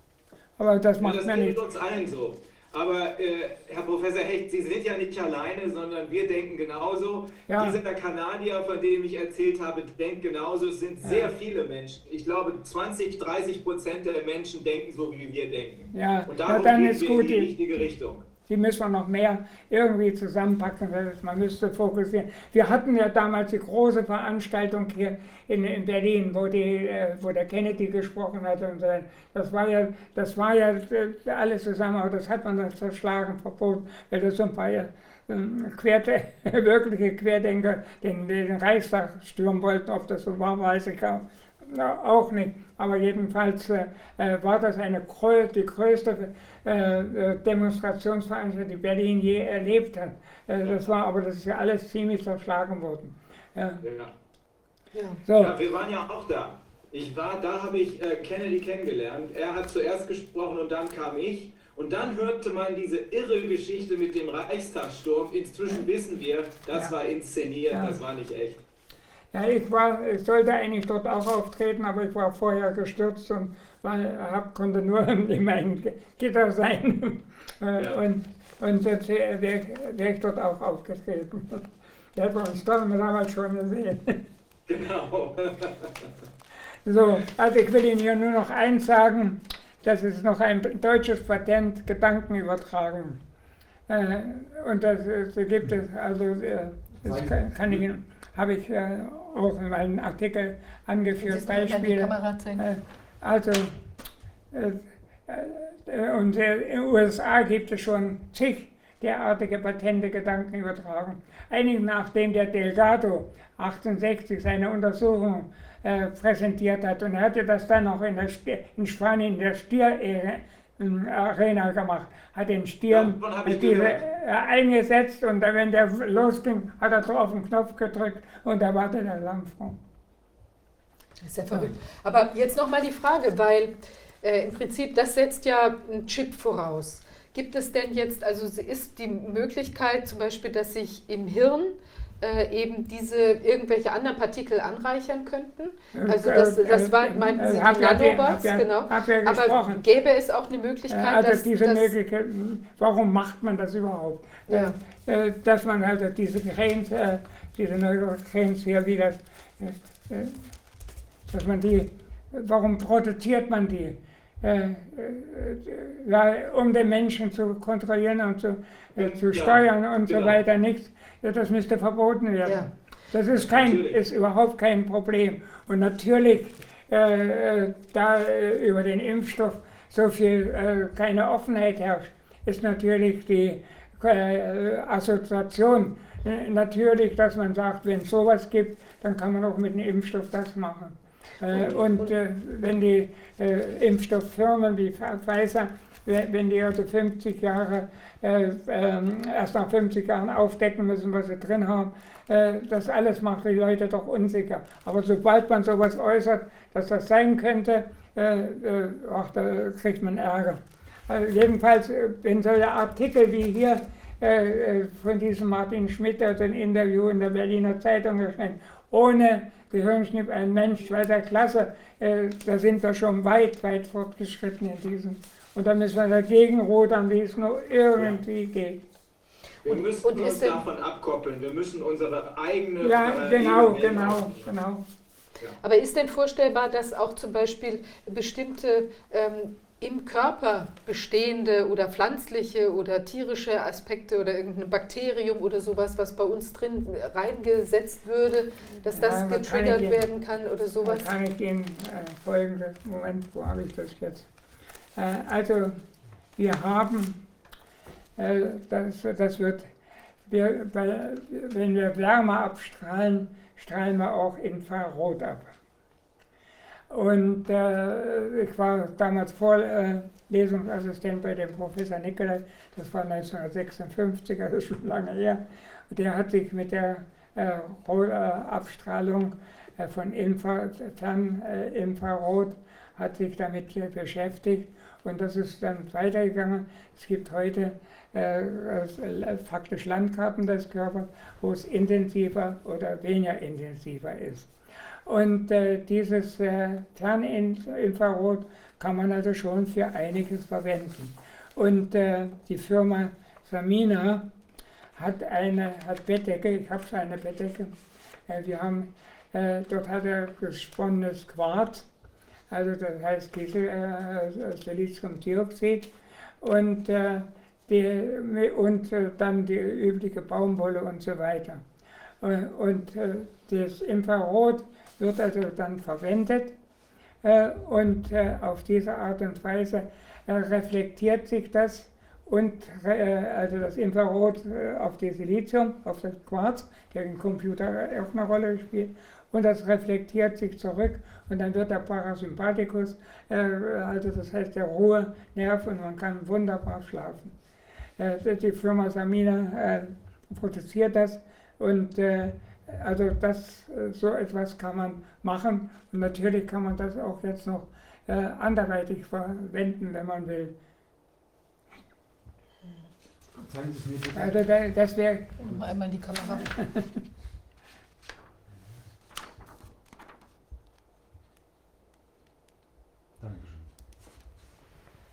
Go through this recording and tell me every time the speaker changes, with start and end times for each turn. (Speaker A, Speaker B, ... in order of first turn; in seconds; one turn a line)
Speaker A: 0.6-1.6
Speaker B: 1.0-18.2
Speaker A: 7.5-7.8
Speaker A: 11.0-11.3
Speaker A: 15.9-17.5
Speaker A: 18.5-53.8
Speaker B: 53.8-54.1
Speaker C: 54.9-55.2
Speaker A: 55.2-55.5
Speaker B: 55.4-68.6
Speaker A: 67.7-68.0
Speaker A: 69.3-84.2
Speaker B: 84.7-86.1
Speaker A: 86.8-93.2
Speaker A: 93.9-103.8
Speaker D: 97.0-97.3
Speaker C: 101.2-102.7
Speaker A: 104.5-129.8
Speaker B: 122.9-124.0
Speaker C: 131.2-151.9
Speaker A: 145.9-149.8
Speaker A: 150.9-160.4
Speaker C: 154.5-154.8
Speaker A: 161.3-228.8
Speaker B: 169.0-170.4
Speaker B: 173.3-174.0
Speaker C: 191.7-192.1
Speaker B: 229.6-234.5
Speaker C: 229.7-230.6
Speaker A: 232.8-234.8
Speaker C: 235.6-251.1
Speaker A: 248.9-250.0
Speaker A: 250.8-254.3
Speaker A: 254.9-255.8
Speaker A: 256.4-257.2
Speaker A: 258.2-259.7
Speaker A: 260.2-265.5
Speaker A: 266.9-294.5
Speaker A: 295.1-304.3
Speaker A: 304.9-307.7
Speaker A: 308.3-311.9
Speaker A: 312.5-321.6
Speaker A: 322.2-326.5
Speaker A: 327.2-347.3
Speaker A: 348.0-360.5
Speaker D: 363.4-364.4
Speaker A: 364.1-365.4
Speaker C: 365.4-366.5
Speaker A: 366.3-367.0
Speaker D: 373.2-373.7